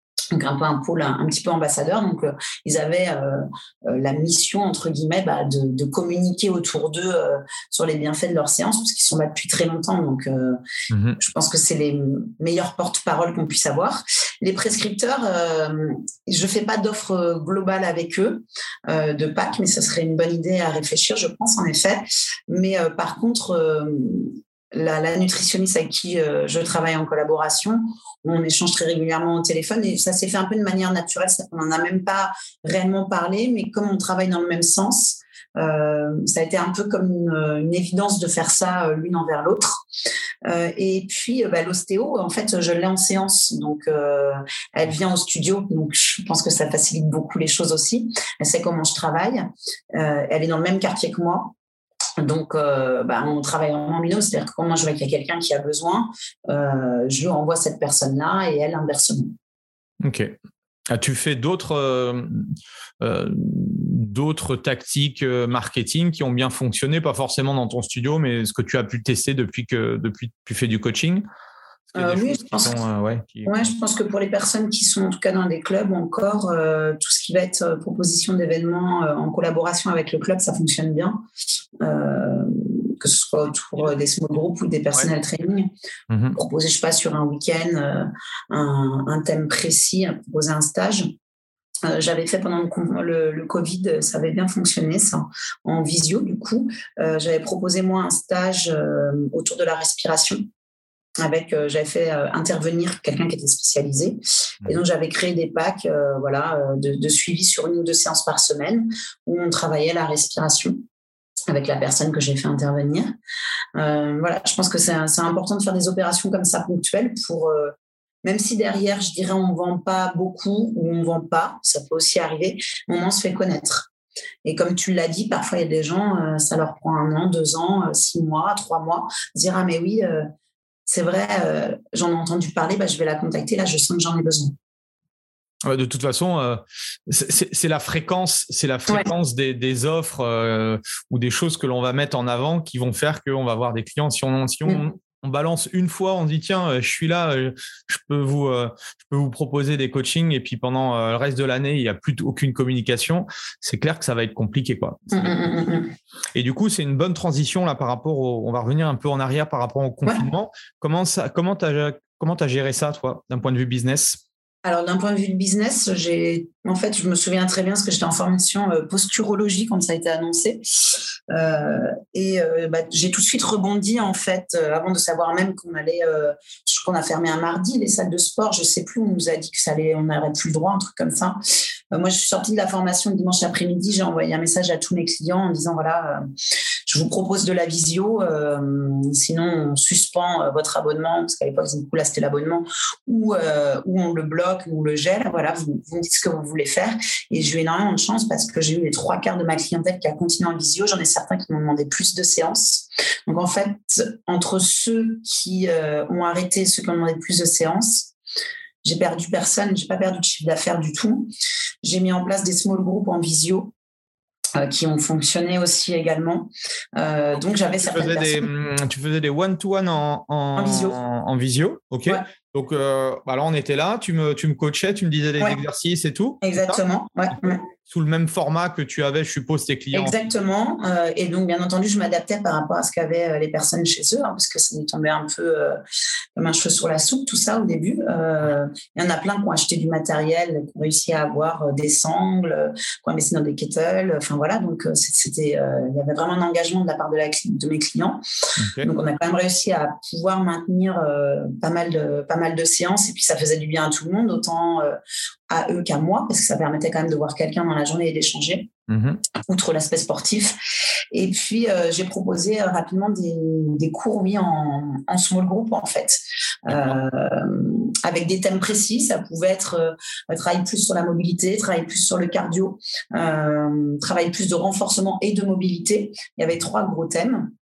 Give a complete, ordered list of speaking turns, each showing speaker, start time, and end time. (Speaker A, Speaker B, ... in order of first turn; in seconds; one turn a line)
Speaker A: 0.3-10.6
Speaker B: 10.9-11.2
Speaker A: 11.2-39.8
Speaker A: 40.5-51.5
Speaker A: 52.2-59.3
Speaker B: 60.0-60.4
Speaker B: 60.9-71.2
Speaker B: 71.9-73.7
Speaker A: 72.0-72.8
Speaker A: 73.5-81.2
Speaker A: 81.8-85.7
Speaker B: 86.1-86.4
Speaker A: 86.3-91.1
Speaker A: 91.9-100.5
Speaker A: 101.2-110.8
Speaker A: 111.5-113.1
Speaker A: 113.8-123.9
Speaker A: 124.4-130.3
Speaker A: 130.9-134.6
Speaker B: 135.7-155.5
Speaker A: 155.1-155.9
Speaker B: 156.3-164.2
Speaker A: 164.7-181.4
Speaker A: 181.9-186.2
Speaker A: 186.9-208.1
Speaker A: 208.8-211.3
Speaker A: 211.8-213.7
Speaker A: 214.6-218.5
Speaker B: 217.5-226.8
Speaker A: 220.6-221.0
Speaker A: 226.4-227.6
Speaker B: 227.9-230.2
Speaker A: 229.9-235.8
Speaker A: 236.4-248.2
Speaker B: 248.6-248.9
Speaker A: 248.8-255.0
Speaker A: 255.5-258.7
Speaker B: 258.9-259.2
Speaker A: 259.4-260.6
Speaker A: 261.1-277.5
Speaker B: 266.7-267.0